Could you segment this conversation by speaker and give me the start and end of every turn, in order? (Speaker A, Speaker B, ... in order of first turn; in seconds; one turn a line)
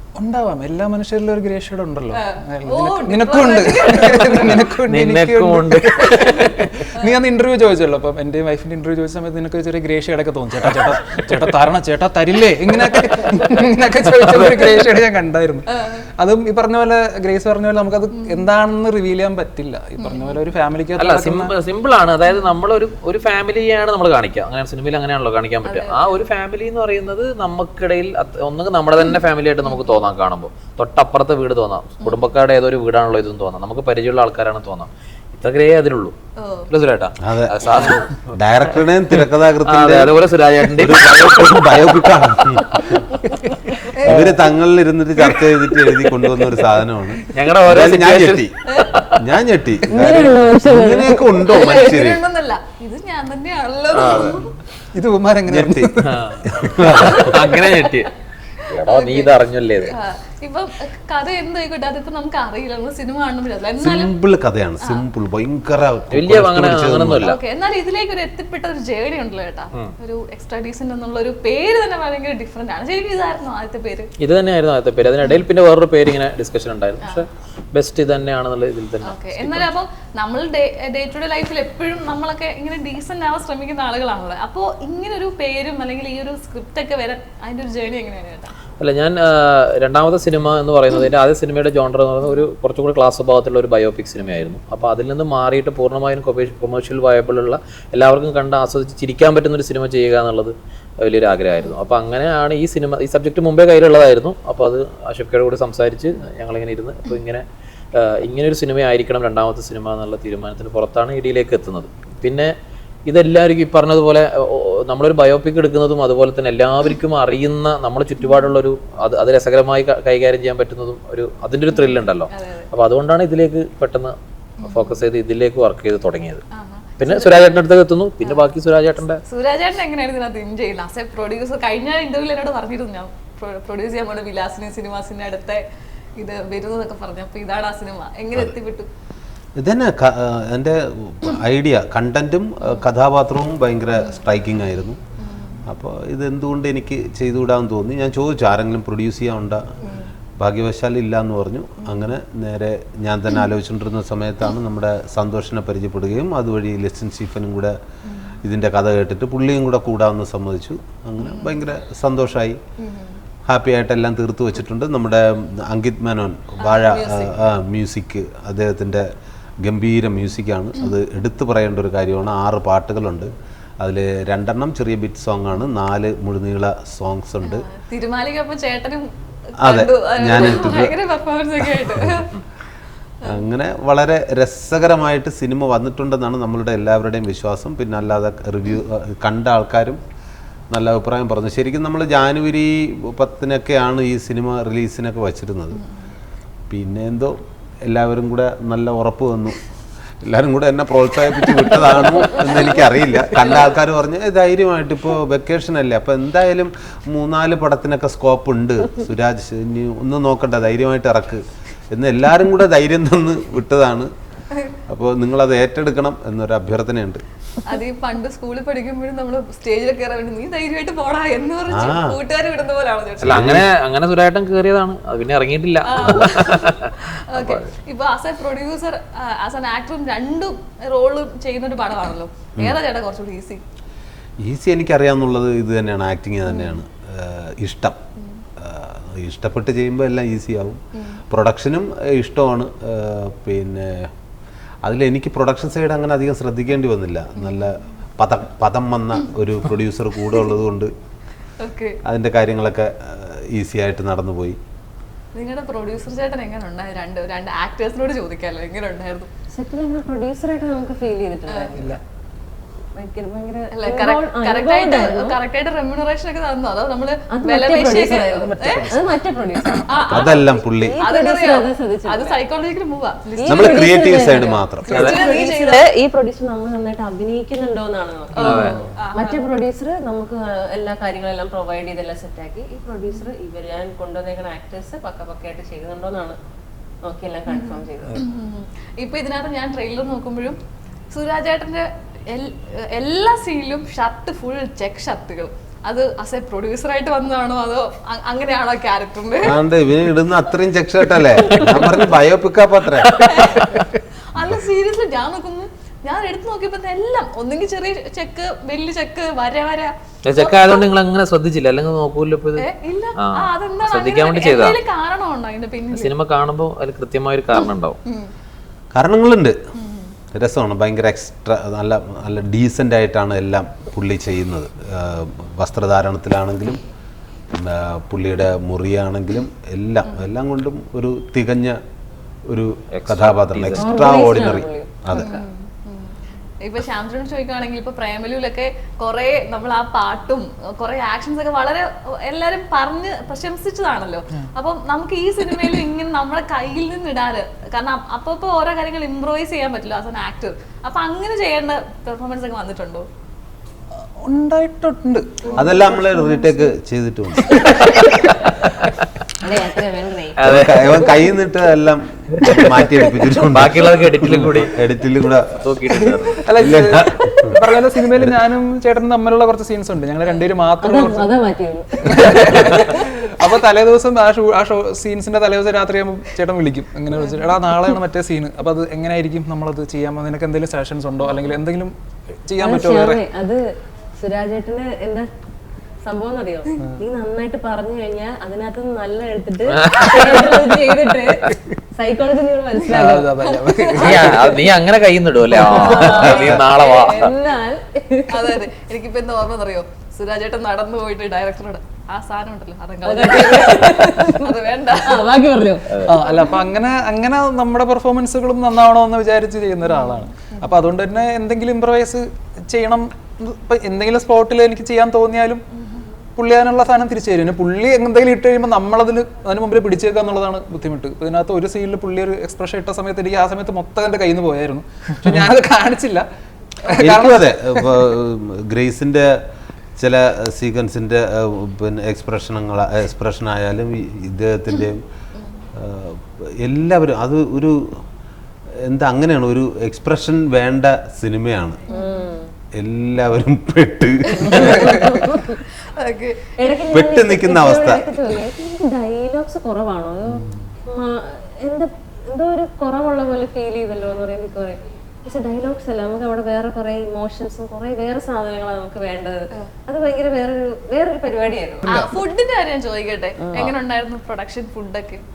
Speaker A: 0.1-21.5
Speaker B: 2.1-4.7
Speaker C: 4.8-6.7
Speaker B: 6.0-7.1
Speaker C: 14.3-14.8
Speaker B: 15.7-16.1
Speaker B: 18.1-18.4
Speaker B: 20.0-20.4
Speaker C: 20.9-36.1
Speaker B: 25.6-26.1
Speaker B: 29.6-29.9
Speaker B: 36.4-36.7
Speaker C: 36.7-38.4
Speaker D: 37.2-40.1
Speaker C: 39.1-42.0
Speaker D: 40.8-43.0
Speaker B: 43.9-44.4
Speaker D: 44.0-48.5
Speaker C: 47.3-49.3
Speaker B: 48.7-48.9
Speaker D: 49.1-52.2
Speaker E: 49.9-51.8
Speaker B: 51.5-54.5
Speaker C: 53.9-54.4
Speaker A: 54.9-56.2
Speaker D: 55.5-57.3
Speaker C: 56.0-58.1
Speaker B: 56.9-58.0
Speaker B: 58.6-59.3
Speaker C: 58.7-60.0
Speaker B: 59.9-64.1
Speaker D: 63.8-67.3
Speaker C: 66.1-67.4
Speaker B: 67.2-74.1
Speaker C: 74.2-79.7
Speaker B: 79.0-88.5
Speaker C: 88.8-112.5
Speaker C: 113.1-126.4
Speaker B: 121.7-122.7
Speaker B: 124.6-125.0
Speaker B: 126.5-127.6
Speaker C: 127.0-129.2
Speaker B: 128.2-128.5
Speaker B: 129.2-135.6
Speaker B: 136.2-138.9
Speaker D: 139.6-145.0
Speaker B: 145.2-145.6
Speaker D: 145.7-149.6
Speaker B: 149.8-150.1
Speaker D: 150.4-157.8
Speaker B: 158.1-158.4
Speaker D: 158.4-162.6
Speaker B: 161.2-161.6
Speaker B: 162.8-163.2
Speaker D: 163.4-169.1
Speaker B: 166.6-167.4
Speaker D: 169.6-177.7
Speaker B: 177.4-182.3
Speaker D: 179.6-180.9
Speaker D: 181.7-182.2
Speaker D: 183.2-190.0
Speaker D: 190.7-195.8
Speaker D: 196.7-199.6
Speaker D: 200.2-214.1
Speaker B: 202.3-203.7
Speaker D: 214.9-217.2
Speaker B: 217.7-223.5
Speaker D: 221.7-222.2
Speaker D: 223.2-223.7
Speaker C: 223.2-227.7
Speaker B: 225.8-233.6
Speaker D: 234.4-238.0
Speaker B: 236.5-236.8
Speaker B: 238.2-238.4
Speaker D: 238.6-244.1
Speaker D: 244.8-250.9
Speaker B: 247.4-247.7
Speaker B: 251.6-252.0
Speaker D: 252.0-254.6
Speaker B: 255.3-259.3
Speaker E: 259.5-262.0
Speaker B: 261.5-261.9
Speaker E: 262.9-265.4
Speaker B: 263.7-268.9
Speaker E: 267.3-272.4
Speaker A: 268.6-269.2
Speaker B: 269.8-274.2
Speaker D: 270.1-271.0
Speaker E: 273.4-286.4
Speaker D: 273.5-275.1
Speaker B: 274.9-275.8
Speaker C: 274.9-275.2
Speaker B: 278.4-279.4
Speaker C: 278.4-278.8
Speaker E: 287.0-288.2
Speaker B: 287.5-290.6
Speaker B: 291.1-299.6
Speaker D: 299.4-303.4
Speaker B: 303.1-310.9
Speaker C: 310.2-314.8
Speaker B: 312.6-316.1
Speaker C: 315.9-318.0
Speaker B: 317.6-318.3
Speaker D: 318.9-319.6
Speaker B: 319.7-320.1
Speaker D: 320.3-326.8
Speaker D: 327.5-331.8
Speaker D: 332.5-335.3
Speaker C: 332.9-333.9
Speaker E: 333.8-335.4
Speaker B: 335.1-353.1
Speaker A: 354.2-356.1
Speaker D: 355.6-357.7
Speaker A: 357.5-358.4
Speaker C: 358.0-359.1
Speaker E: 359.4-361.2
Speaker C: 360.4-361.0
Speaker D: 360.4-365.9
Speaker C: 362.4-362.8
Speaker C: 363.5-364.7
Speaker C: 365.6-366.5
Speaker A: 366.4-371.3
Speaker D: 366.5-367.6
Speaker E: 370.8-373.1
Speaker A: 372.0-383.2
Speaker B: 377.2-377.9
Speaker E: 382.6-383.6
Speaker E: 384.1-385.3
Speaker E: 386.0-393.4
Speaker C: 389.7-390.6
Speaker A: 392.9-394.5
Speaker B: 392.9-394.6
Speaker C: 394.0-397.3
Speaker E: 395.5-398.6
Speaker B: 395.6-397.3
Speaker B: 398.3-405.2
Speaker E: 403.1-406.0
Speaker A: 406.0-415.6
Speaker B: 406.2-406.6
Speaker B: 409.8-410.8
Speaker B: 415.8-416.1
Speaker A: 416.4-426.2
Speaker A: 426.8-428.0
Speaker D: 427.0-429.4
Speaker D: 430.0-435.0
Speaker B: 435.4-435.6
Speaker D: 435.7-438.0
Speaker D: 438.8-441.8
Speaker B: 441.9-442.3
Speaker E: 441.9-442.5
Speaker D: 442.7-445.1
Speaker B: 444.3-446.5
Speaker E: 444.5-445.6
Speaker E: 446.6-461.9
Speaker D: 446.9-448.2
Speaker A: 461.8-462.1
Speaker B: 461.9-465.2
Speaker E: 463.4-463.7